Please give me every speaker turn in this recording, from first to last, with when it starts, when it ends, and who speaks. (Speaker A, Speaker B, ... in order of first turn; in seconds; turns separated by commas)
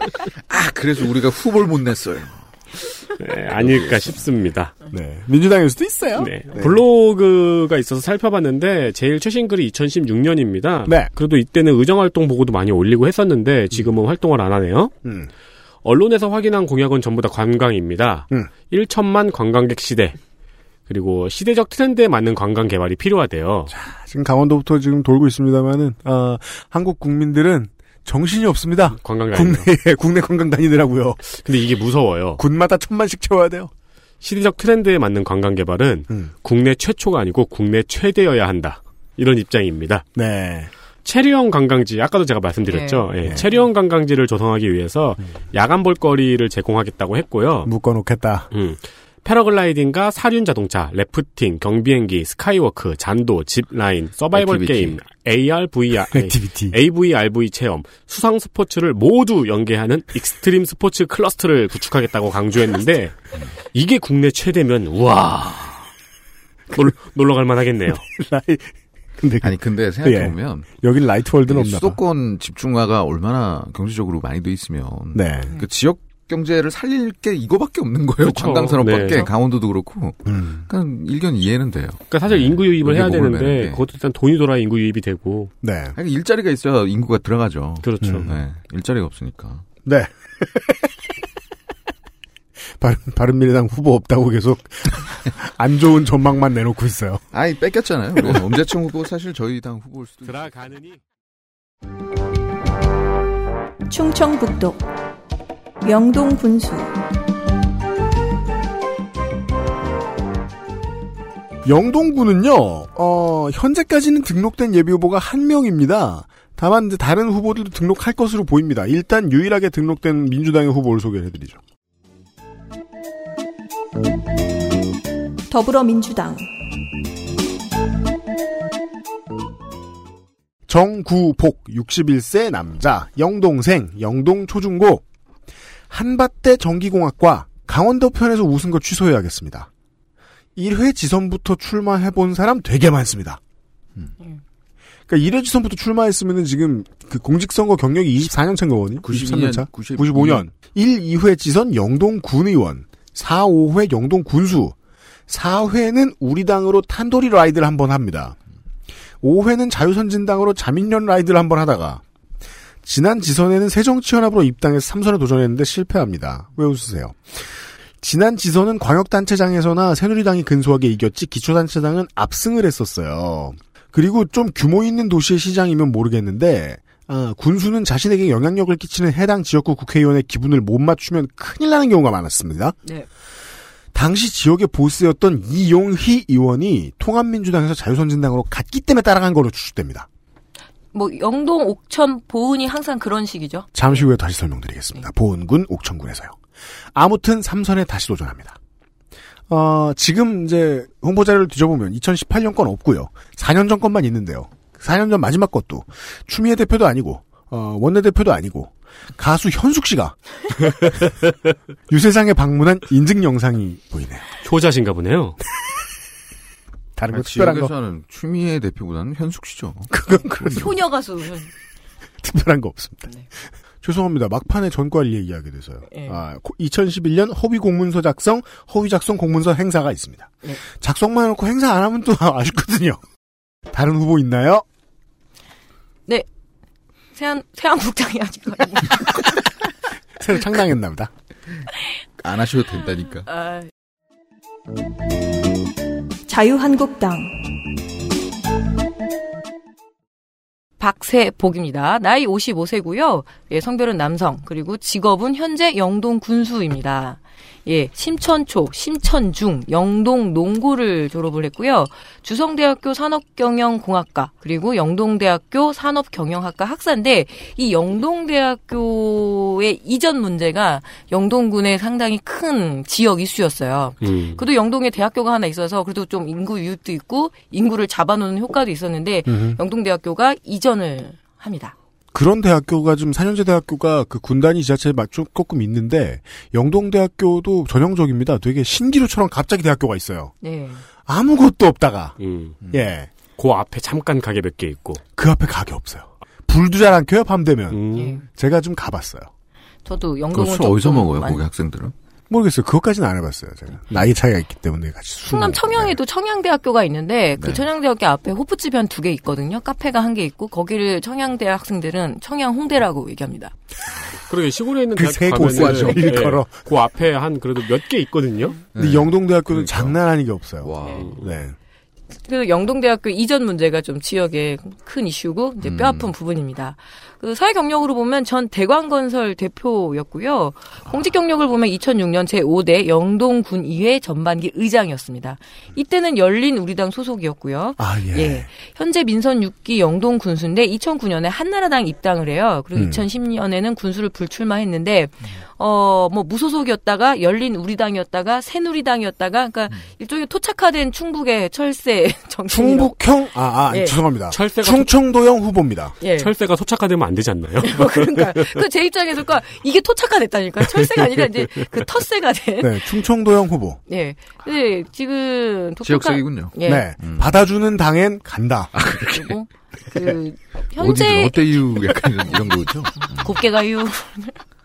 Speaker A: 0.5-2.4, Speaker B: 3.2-4.7, Speaker A: 3.6-3.9, Speaker C: 4.9-6.8, Speaker B: 6.2-14.9, Speaker C: 10.8-11.1, Speaker C: 15.0-15.3, Speaker B: 15.8-20.1, Speaker B: 20.9-23.7, Speaker C: 23.7-31.4, Speaker B: 29.0-29.7, Speaker B: 31.3-32.4, Speaker C: 32.4-33.7, Speaker B: 34.2-40.0, Speaker C: 40.1-40.7, Speaker B: 41.0-47.7, Speaker D: 42.7-43.6, Speaker C: 47.6-48.5, Speaker B: 48.5-63.1, Speaker A: 54.3-55.0, Speaker C: 56.1-56.8, Speaker B: 63.7-65.9, Speaker B: 66.7-68.0, Speaker C: 68.1-72.0, Speaker A: 69.4-70.7, Speaker A: 71.5-83.8, Speaker C: 75.1-75.5, Speaker B: 78.2-79.3, Speaker C: 80.3-80.6, Speaker B: 82.1-85.5, Speaker C: 85.6-85.9, Speaker A: 86.0-89.6, Speaker B: 87.8-88.3, Speaker C: 88.0-88.3, Speaker C: 89.8-90.9, Speaker C: 92.8-97.2, Speaker A: 97.3-100.5, Speaker B: 100.2-101.0, Speaker E: 103.9-104.8, Speaker E: 105.8-106.9, Speaker C: 111.6-121.6, Speaker E: 125.5-126.5, Speaker C: 130.7-135.0, Speaker C: 135.9-139.7, Speaker C: 140.6-143.4, Speaker C: 145.1-154.7, Speaker A: 149.0-150.4, Speaker C: 155.3-158.3, Speaker C: 159.2-162.0, Speaker C: 162.8-182.8, Speaker C: 183.9-190.1, Speaker D: 190.9-193.7, Speaker C: 193.7-196.3, Speaker C: 196.9-198.6, Speaker C: 199.5-210.2, Speaker C: 211.9-214.2, Speaker B: 214.4-215.4, Speaker C: 216.9-217.7, Speaker A: 217.1-219.9, Speaker C: 219.9-220.7, Speaker D: 220.5-221.5, Speaker C: 222.2-223.1, Speaker C: 223.8-233.0, Speaker D: 225.9-226.2, Speaker C: 233.7-234.6, Speaker D: 237.1-239.4, Speaker C: 240.2-241.1, Speaker A: 242.2-243.2, Speaker D: 243.3-243.7, Speaker E: 246.3-247.3, Speaker D: 250.8-281.7, Speaker B: 274.0-274.4, Speaker C: 279.3-279.6, Speaker C: 282.1-290.3, Speaker D: 290.4-290.8, Speaker C: 291.1-292.2, Speaker B: 292.2-292.6, Speaker C: 292.7-293.1, Speaker B: 293.4-295.0, Speaker C: 295.1-299.3, Speaker B: 297.7-298.2, Speaker D: 297.9-298.2, Speaker D: 299.8-301.4, Speaker A: 300.3-301.9, Speaker C: 302.3-305.9, Speaker D: 305.3-313.5, Speaker A: 307.4-307.6, Speaker B: 314.3-318.6, Speaker C: 314.9-316.5, Speaker A: 315.4-316.2, Speaker A: 318.7-320.0, Speaker C: 318.8-321.5, Speaker A: 320.6-321.1, Speaker D: 322.2-352.9, Speaker A: 325.6-326.1, Speaker C: 337.8-338.5, Speaker C: 342.8-343.0, Speaker C: 352.5-355.9, Speaker D: 353.7-354.0, Speaker B: 354.3-354.9, Speaker D: 356.0-356.3, Speaker B: 356.1-358.6, Speaker D: 357.6-362.8, Speaker C: 362.6-363.8, Speaker D: 363.9-366.9, Speaker A: 365.8-367.3, Speaker C: 366.6-368.8, Speaker A: 368.7-369.3, Speaker D: 369.1-372.1, Speaker A: 370.8-373.4, Speaker D: 373.1-374.4